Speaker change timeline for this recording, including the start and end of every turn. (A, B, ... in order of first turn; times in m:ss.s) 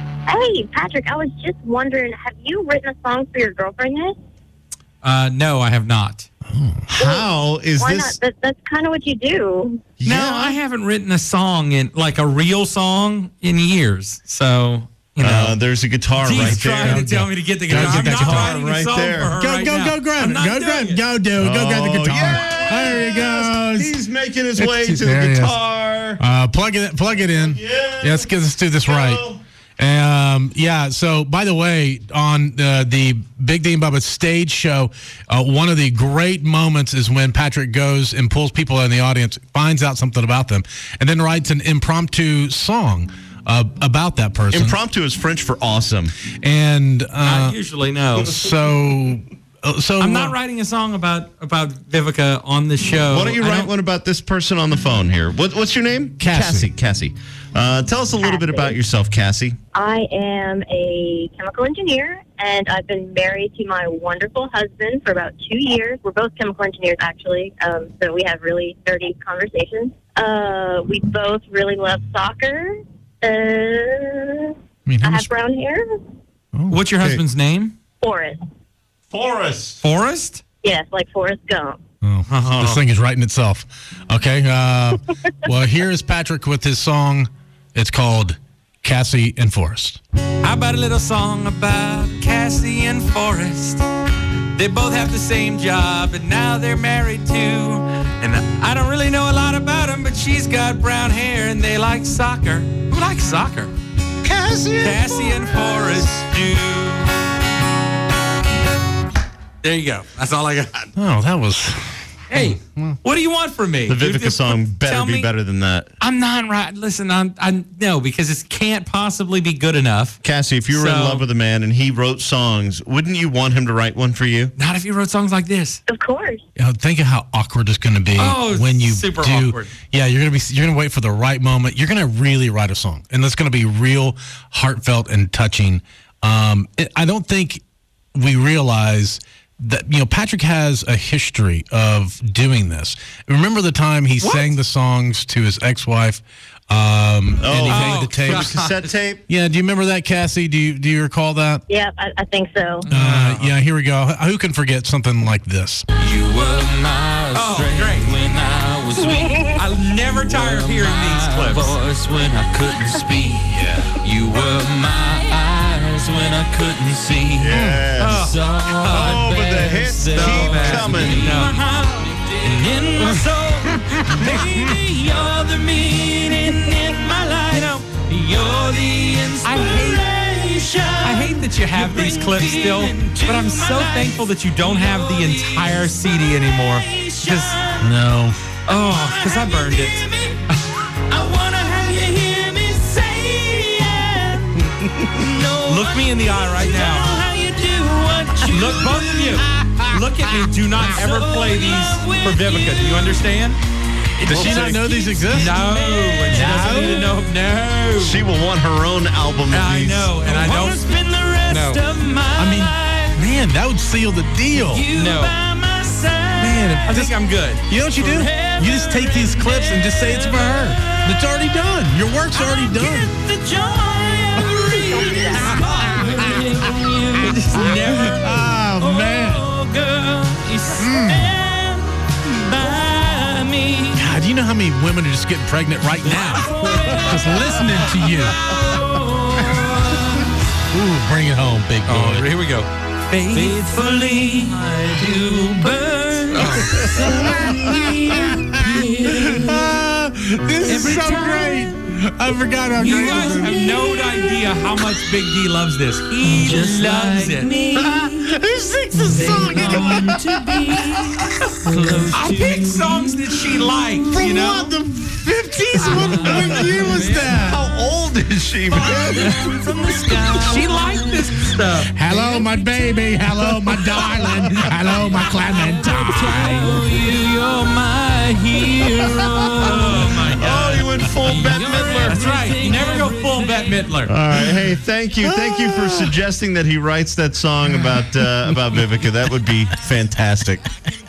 0:00.3-0:04.2 A
0:05.0-0:06.3 B
0:06.5-0:06.8 C
0:06.9-0:08.2 D
0:07.0-0:07.3 A
0:07.8-0:09.8 A
0:10.0-0:10.6 D
0:10.0-0:15.6 B
0:15.2-0:17.1 D
0:16.2-0:21.0 B
0:16.3-0:18.5 C
0:17.7-0:19.4 D
0:19.4-0:24.0 C
0:21.4-0:26.2 D
0:24.6-0:25.6 C
0:26.2-0:29.2 C
0:27.4-0:28.3 D
0:28.8-0:29.4 D
0:29.8-0:44.8 C
0:44.5-0:46.1 D
0:46.4-0:47.6 C
0:47.2-0:48.4 B
0:48.2-0:50.4 C
0:50.0-0:53.7 B
0:53.1-0:59.6 D
0:56.2-0:56.7 C
0:58.2-0:58.8 A
0:59.8-1:16.0 A
1:14.9-1:15.3 C
1:16.5-1:16.8 C
1:16.7-1:17.7 B
1:18.0-1:18.4 A
1:19.1-1:19.8 D
1:19.8-1:20.4 B
1:20.6-1:21.8 A
1:22.0-1:30.0 C
1:22.3-1:22.8 B
1:30.4-1:33.8 B
1:34.6-1:43.7 B
1:44.2-1:45.4 C
1:44.8-1:47.2 B
1:49.6-1:50.9 B
1:51.0-1:53.0 C
1:52.3-1:55.3 B
1:53.9-1:55.9 D
1:56.0-2:00.2 B
2:00.2-2:04.5 D
2:00.7-2:01.3 B
2:04.6-2:05.8 B
2:05.9-2:06.4 A
2:06.6-2:17.6 C
2:08.2-2:09.7 B
2:18.1-2:28.5 C
2:24.2-2:24.6 B
2:27.4-2:29.2 D
2:27.6-2:29.0 B
2:29.3-2:31.6 C
2:31.7-2:32.9 A
2:32.8-2:33.6 B
2:32.9-2:35.9 C
2:36.0-3:08.0 E
2:37.3-2:38.3 B
2:39.2-2:39.5 A
2:39.5-2:41.8 B
2:43.5-2:44.0 C
2:47.4-2:51.4 D
2:47.5-2:47.8 C
2:48.0-2:49.2 B
2:50.1-2:51.6 B
2:52.4-2:53.3 B
2:53.7-2:54.5 C
2:54.1-2:54.6 B
2:56.3-2:56.9 B
2:57.5-2:57.8 B
2:59.4-3:00.0 B
3:01.0-3:07.6 B
3:07.8-3:08.4 C
3:08.7-3:10.1 B
3:08.9-3:10.5 E
3:11.1-3:20.0 E
3:15.7-3:17.2 B
3:18.5-3:23.6 B
3:20.8-3:23.3 E
3:24.2-3:27.2 E
3:24.3-3:25.5 C
3:24.3-3:24.9 D
3:25.3-3:28.3 B
3:26.3-3:27.1 C
3:28.0-3:30.1 D
3:29.5-3:31.8 B
3:30.2-3:33.2 E
3:32.4-3:34.9 C
3:34.5-3:37.1 E
3:34.9-3:35.3 B
3:36.4-3:37.1 C
3:36.4-3:37.7 B
3:37.7-3:43.1 C
3:37.8-3:41.3 E
3:42.3-3:48.0 E
3:44.6-3:45.8 A
3:45.0-3:46.1 C
3:47.2-3:48.6 B
3:47.7-3:49.4 C
3:48.8-3:54.1 E
3:50.8-3:51.3 C
3:54.0-3:56.5 C
3:56.1-4:00.4 E
3:57.0-3:58.4 C
4:00.7-4:02.3 C
4:01.9-4:03.8 B
4:03.3-4:09.8 E
4:04.4-4:04.8 B
4:06.3-4:07.4 B
4:06.4-4:13.9 C
4:10.7-4:11.7 E
4:12.8-4:14.8 E
4:12.8-4:17.6 B
4:16.2-4:23.2 E
4:17.8-4:21.2 C
4:22.1-4:24.7 B
4:24.1-4:27.6 C
4:25.8-4:27.4 E
4:26.0-4:29.4 D
4:26.2-4:26.5 B
4:28.7-4:31.2 E
4:30.4-4:31.9 B
4:31.9-4:36.9 C
4:32.0-4:44.1 E
4:39.6-4:40.9 B
4:40.2-4:42.4 D
4:42.1-4:44.1 B
4:44.1-4:50.6 D
4:44.4-4:44.6 C
4:45.2-4:46.1 C
4:47.7-4:48.6 C